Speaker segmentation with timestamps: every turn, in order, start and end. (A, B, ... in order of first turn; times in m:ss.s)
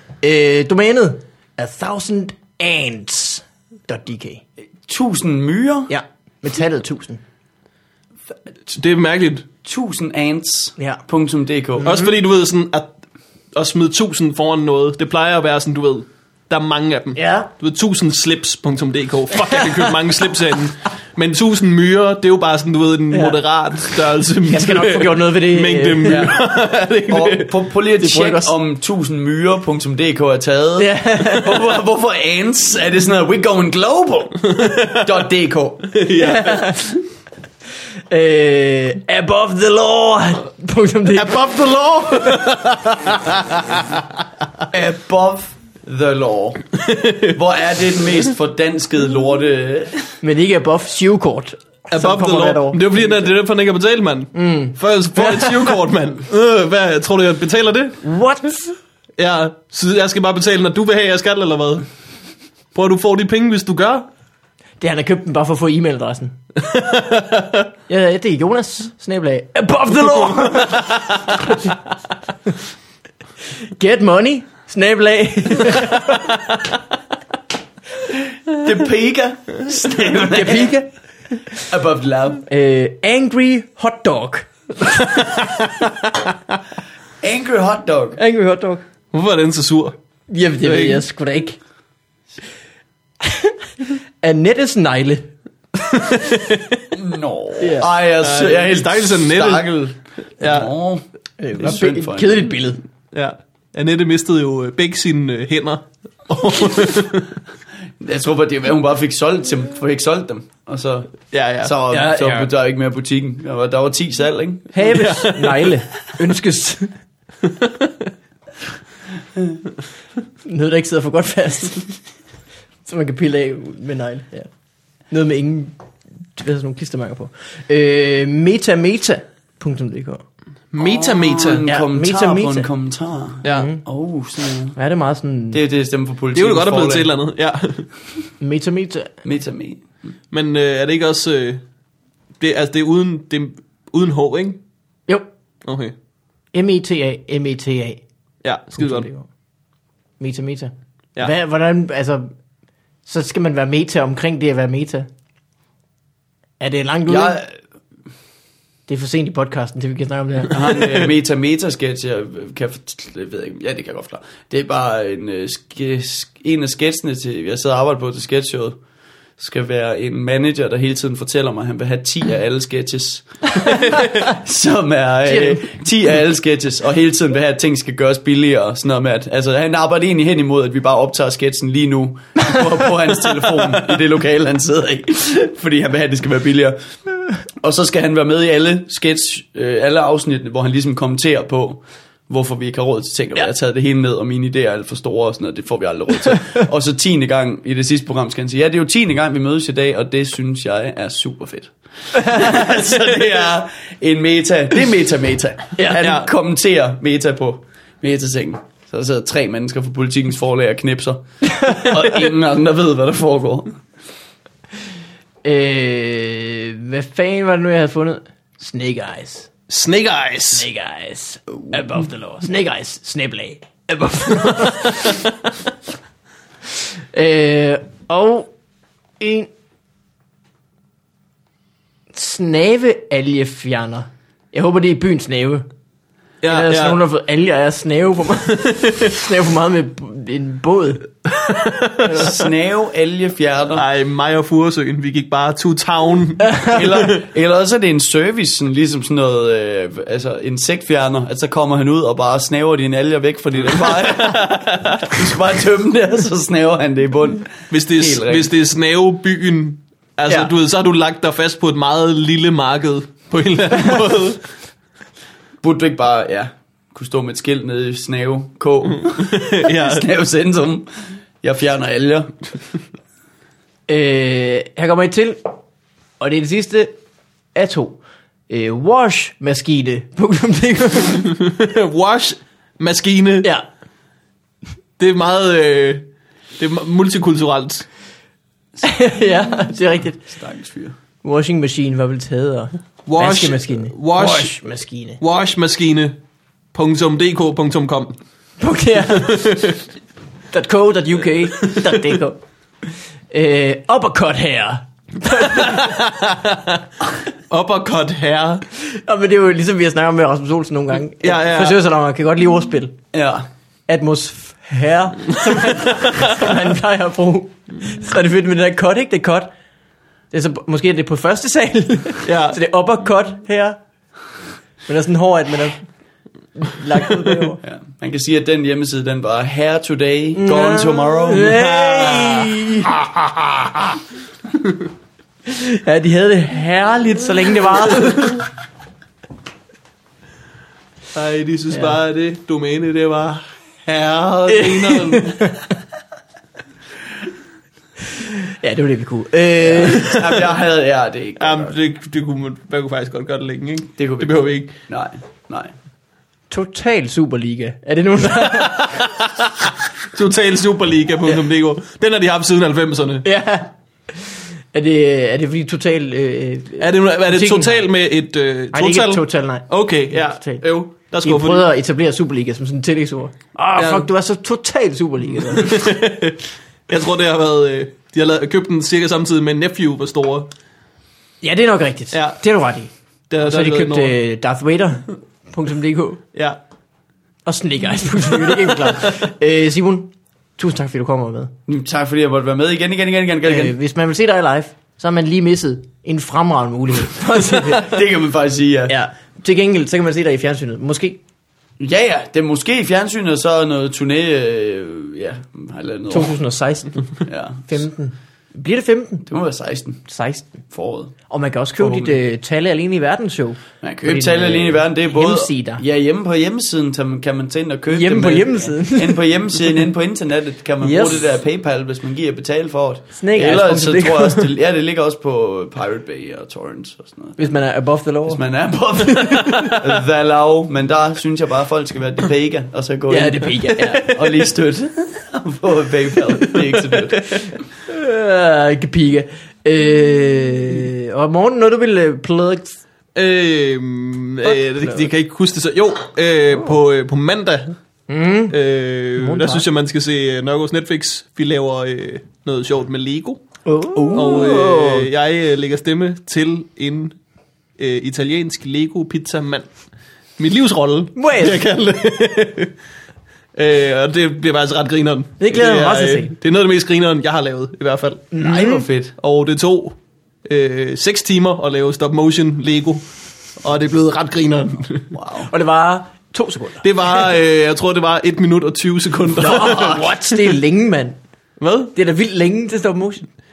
0:00.2-0:04.4 A
0:04.8-0:05.9 B
0:05.9-0:07.2 A
0:08.8-0:09.5 C
0:09.6-0:11.9 B
0:11.8-0:12.1 A
0:11.8-0:12.9 C
0:13.5-0:27.5 C
0:17.2-0:17.5 A
0:19.4-0:19.9 A
0:23.1-0:23.4 A
0:24.5-0:26.2 A
0:26.0-0:26.4 B
0:27.1-0:36.0 B
0:28.0-0:28.5 A
0:30.8-0:31.5 A
0:34.5-0:35.1 C
0:35.9-0:36.8 C
0:36.2-0:36.9 A
0:38.1-0:42.6 A
0:41.1-0:43.8 C
0:44.7-0:50.1 B
0:46.9-0:47.4 C
0:50.2-0:53.2 A
0:51.9-0:58.0 C
0:54.3-0:55.7 A
0:58.0-0:58.7 A
0:59.2-1:01.8 C
1:02.7-1:04.1 C
1:04.8-1:06.3 A
1:06.6-1:07.6 C
1:07.9-1:11.8 A
1:10.2-1:11.0 C
1:13.8-1:16.8 A
1:18.5-1:20.8 B
1:20.0-1:21.6 A
1:21.7-1:22.4 B
1:22.5-1:25.2 A
1:27.2-1:28.2 B
1:28.2-1:28.8 A
1:29.1-1:30.0 C
1:30.3-1:31.6 A
1:30.6-1:31.0 C
1:33.2-1:33.5 A
1:34.2-1:35.3 A
1:35.9-1:36.6 C
1:36.9-1:41.0 B
1:37.6-1:37.9 A
1:38.2-1:40.7 C
1:41.4-1:42.8 A
1:41.6-1:42.5 B
1:43.1-1:47.3 C
1:48.0-1:54.9 B
1:51.3-1:51.8 C
1:51.9-1:52.5 A
1:54.7-1:56.9 A
1:54.9-1:55.7 C
1:57.4-1:57.9 C
2:00.4-2:01.9 A
2:02.8-2:04.5 A
2:05.1-2:05.8 A
2:06.3-2:10.2 A
2:10.7-2:11.6 C
2:10.8-2:14.8 B
2:11.6-2:12.7 A
2:13.4-2:13.7 C
2:13.5-2:13.8 A
2:14.7-2:15.6 A
2:15.5-2:17.1 B
2:16.3-2:17.8 C
2:18.4-2:19.1 A
2:19.2-2:19.9 B
2:20.3-2:21.6 C
2:22.4-2:24.6 C
2:25.6-2:25.9 C
2:26.5-2:28.0 A
2:28.4-2:29.1 C
2:28.7-2:29.3 A
2:30.2-2:32.3 A
2:33.0-2:35.1 A
2:36.6-2:37.4 A
2:37.0-2:37.5 B
2:38.9-2:40.6 A
2:40.5-2:48.8 B
2:49.4-2:53.5 B
2:54.3-3:06.8 B
2:55.2-2:55.7 A
3:07.6-3:33.8 B
3:25.8-3:26.0 A
3:26.0-3:26.3 C
3:35.4-3:39.5 A
3:39.7-3:40.7 C
3:40.5-3:45.2 A
3:44.6-3:45.1 C
3:47.1-3:48.5 A
3:49.2-3:49.5 A
3:52.1-3:55.6 A
3:56.4-3:57.0 C
3:56.4-4:01.4 A
4:01.6-4:02.0 C
4:02.0-4:02.4 A
4:02.1-4:03.8 B
4:03.7-4:07.2 C
4:06.7-4:18.5 B
4:13.6-4:15.2 C
4:17.7-4:24.4 C
4:20.2-4:20.5 B
4:25.6-4:30.9 B
4:29.0-4:30.0 C
4:31.4-4:32.3 B
4:33.9-4:35.5 A
4:36.2-4:37.0 A
4:37.5-4:41.3 A
4:41.2-4:43.5 C
4:45.0-4:47.9 C
4:48.8-4:50.2 A
4:50.3-4:51.0 B
4:51.2-4:55.2 A
4:53.0-4:54.6 C
4:55.2-4:56.2 C
4:56.7-4:58.2 C
4:58.6-4:59.8 A
4:59.2-4:59.6 C
5:00.5-5:02.4 A
5:03.3-5:06.1 A
5:05.5-5:06.8 C
5:07.5-5:08.6 C
5:08.8-5:13.0 A
5:11.2-5:11.8 C
5:13.1-5:13.5 B
5:13.9-5:19.5 A
5:20.3-5:23.8 A
5:22.2-5:22.6 C
5:24.8-5:25.9 A
5:26.6-5:27.6 A
5:27.6-5:31.8 B
5:30.4-5:32.9 A
5:31.8-5:32.4 C
5:35.5-5:38.4 A
5:41.1-5:45.5 C
5:41.7-5:42.0 A
5:44.5-5:45.6 A
5:48.1-5:50.3 A
5:49.7-5:51.7 B
5:51.4-5:54.7 C
5:54.0-5:55.7 B
5:56.5-5:59.1 A
5:58.7-5:59.4 C
6:00.0-6:03.2 C
6:03.2-6:07.8 A
6:06.8-6:11.6 C
6:08.7-6:10.6 A
6:11.2-6:16.0 A
6:13.8-6:14.1 C
6:15.5-6:20.5 C
6:21.4-6:26.2 A
6:22.1-6:22.4 C
6:23.3-6:24.1 C
6:27.4-6:31.5 A
6:31.7-6:33.7 B
6:33.4-6:37.9 A
6:37.7-6:38.9 B
6:38.9-6:41.2 A
6:41.8-6:46.4 B
6:46.1-6:47.1 A
6:47.2-6:47.7 B
6:47.6-6:49.3 A
6:49.3-6:50.0 B
6:50.0-6:50.6 A
6:50.7-6:51.1 B
6:51.3-6:55.8 A
6:51.8-6:52.2 B
6:53.8-7:07.5 B
6:57.9-6:59.3 A
7:00.8-7:01.3 A
7:03.1-7:04.5 A
7:07.4-7:09.8 A
7:08.3-7:17.5 B
7:13.1-7:14.1 A
7:17.3-7:22.8 A
7:23.1-7:27.8 C
7:24.4-7:25.1 A
7:28.1-7:28.6 A
7:28.5-7:33.4 C
7:29.2-7:29.7 A
7:33.6-7:35.1 A
7:33.9-7:34.5 B
7:34.1-7:37.2 C
7:37.8-7:39.7 C
7:40.4-7:42.7 C
7:41.2-7:41.6 A
7:43.6-7:48.3 C
7:45.4-7:46.3 A
7:48.3-7:48.9 A
7:48.4-7:49.1 B
7:49.2-7:53.0 C
7:53.6-7:55.1 C
7:55.1-7:55.5 B
7:55.4-7:56.9 A
7:56.8-8:00.5 C
7:59.4-8:01.2 A
8:01.6-8:01.9 C
8:01.9-8:03.2 A